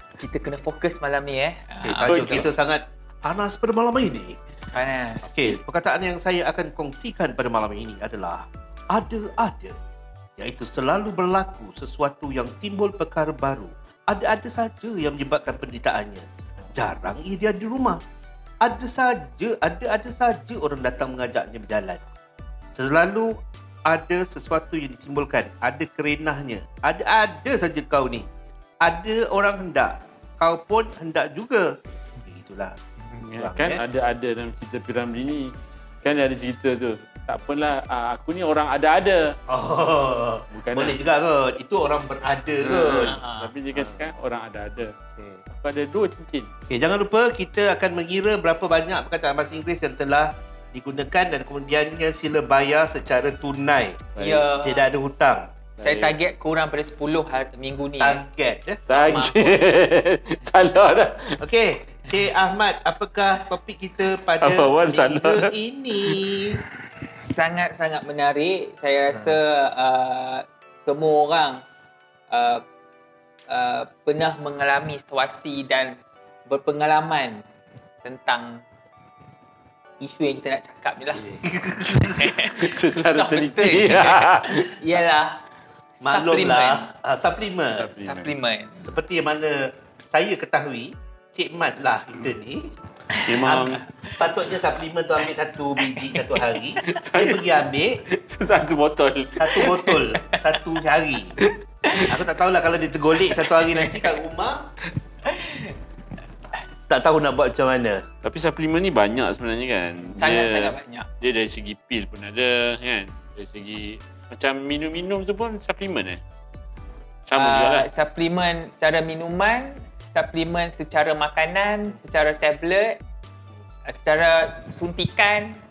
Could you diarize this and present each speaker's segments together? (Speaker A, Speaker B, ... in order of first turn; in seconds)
Speaker A: 0.2-2.5, 4.7-5.6, 43.0-43.5, 54.2-54.9, 55.8-58.2, 59.0-59.7, 67.2-71.6, 72.3-72.6, 73.5-77.4, 78.0-78.6, 80.0-85.4, 86.1-86.9, 88.0-88.8, 93.1-93.5, 105.2-105.7, 110.2-111.1, 117.3-123.0, 123.8-125.6
Speaker B: 1.8-4.4, 5.2-9.8, 10.4-18.0, 18.6-22.0, 22.7-28.3, 28.8-33.8, 39.5-43.1, 43.7-44.1, 45.1-45.4, 46.7-54.1, 54.6-55.5, 58.0-59.3, 61.4-66.6, 81.3-82.2, 86.0-87.9, 88.8-92.7, 93.4-98.0, 99.3-101.4, 102.0-104.7, 106.9-108.0
Speaker C: 2.1-2.4, 33.2-39.3, 40.5-41.0, 42.6-44.9, 45.5-46.5, 54.1-54.5, 55.8-56.1, 58.9-61.4, 64.4-66.2, 82.5-84.8, 87.7-88.3, 93.2-93.8, 96.8-99.8, 108.2-116.2, 117.3-117.9